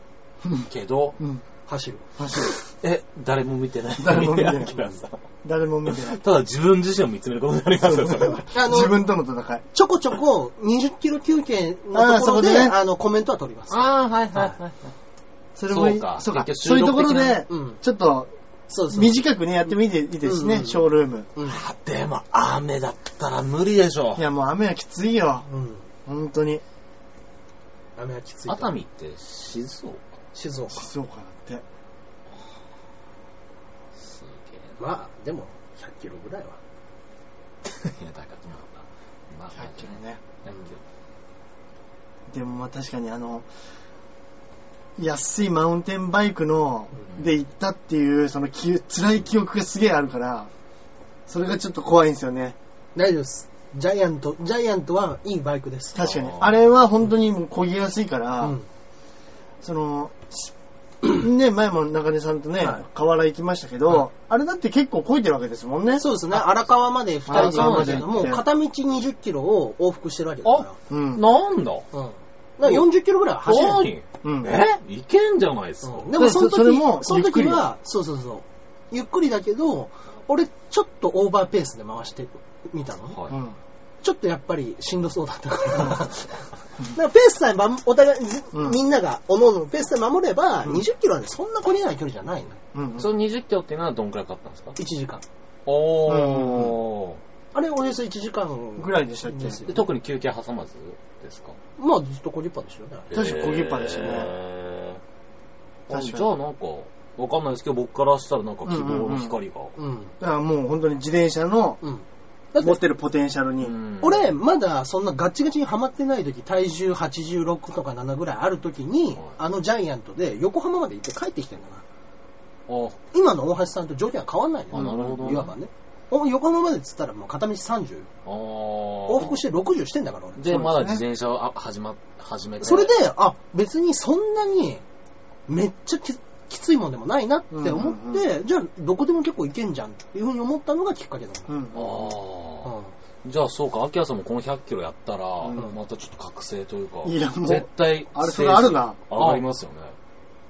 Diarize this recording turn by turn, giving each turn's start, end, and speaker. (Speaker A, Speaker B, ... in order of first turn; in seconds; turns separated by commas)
Speaker A: 0.6-1.2, Speaker B: 1.7-2.0, Speaker C: 2.2-2.6, Speaker A: 2.8-5.2, Speaker C: 4.0-4.8, Speaker C: 5.4-6.2, Speaker A: 5.9-8.5, Speaker C: 7.9-9.6, Speaker B: 8.5-9.0, Speaker B: 9.7-14.6, Speaker C: 11.9-12.8, Speaker A: 13.7-14.9, Speaker C: 15.6-18.3, Speaker A: 15.7-17.4, Speaker B: 17.5-17.8, Speaker B: 18.7-19.2, Speaker C: 18.9-21.3, Speaker B: 20.2-21.6, Speaker A: 21.4-24.3, Speaker C: 24.2-25.5, Speaker B: 25.5-25.9, Speaker C: 26.1-26.6, Speaker B: 28.0-28.7, Speaker A: 28.5-30.0, Speaker B: 30.3-30.9, Speaker C: 30.7-31.6, Speaker A: 34.0-34.8, Speaker B: 34.8-36.6, Speaker A: 37.6-40.8, Speaker C: 39.6-40.2, Speaker C: 42.3-43.5, Speaker C: 45.0-50.5, Speaker C: 51.3-52.6, Speaker B: 53.0-56.0, Speaker C: 56.0-58.6, Speaker A: 56.0-56.6, Speaker C: 59.6-60.5, Speaker C: 61.0-66.1, Speaker B: 66.0-70.8, Speaker A: 67.3-68.4, Speaker C: 67.3-68.4, Speaker A: 70.5-71.9, Speaker C: 70.9-71.2, Speaker B: 71.9-73.9, Speaker A: 73.4-76.1, Speaker C: 74.2-74.6, Speaker B: 75.8-83.2, Speaker C: 76.2-77.7, Speaker A: 83.1-83.4, Speaker C: 83.3-83.6, Speaker B: 84.0-92.6, Speaker C: 92.7-93.1, Speaker A: 93.0-94.8, Speaker B: 94.8-95.2, Speaker A: 95.7-97.2, Speaker C: 96.0-96.8, Speaker B: 97.5-99.9, Speaker C: 98.8-99.6, Speaker A: 99.6-101.6, Speaker B: 101.8-103.3, Speaker A: 103.1-105.0, Speaker C: 103.1-104.3, Speaker A: 105.9-109.8, Speaker C: 105.9-106.3, Speaker C: 108.7-109.3, Speaker B: 109.8-110.1, Speaker C: 110.2-111.8, Speaker B: 111.8-112.8, Speaker C: 112.6-113.8, Speaker A: 113.6-114.3, Speaker B: 114.0-121.8, Speaker A: 122.7-123.0, Speaker B: 123.1-128.1, Speaker A: 124.7-125.5, Speaker C: 124.8-125.4, Speaker A: 128.2-129.4, Speaker B: 129.1-130.6, Speaker A: 130.4-132.9, Speaker C: 130.5-131.0, Speaker B: 132.6-134.8, Speaker B: 135.5-141.5, Speaker C: 137.5-138.2, Speaker C: 141.5-142.1, Speaker A: 141.7-149.9, Speaker B: 142.6-142.9, Speaker C: 147.0-149.0, Speaker B: 149.1-149.4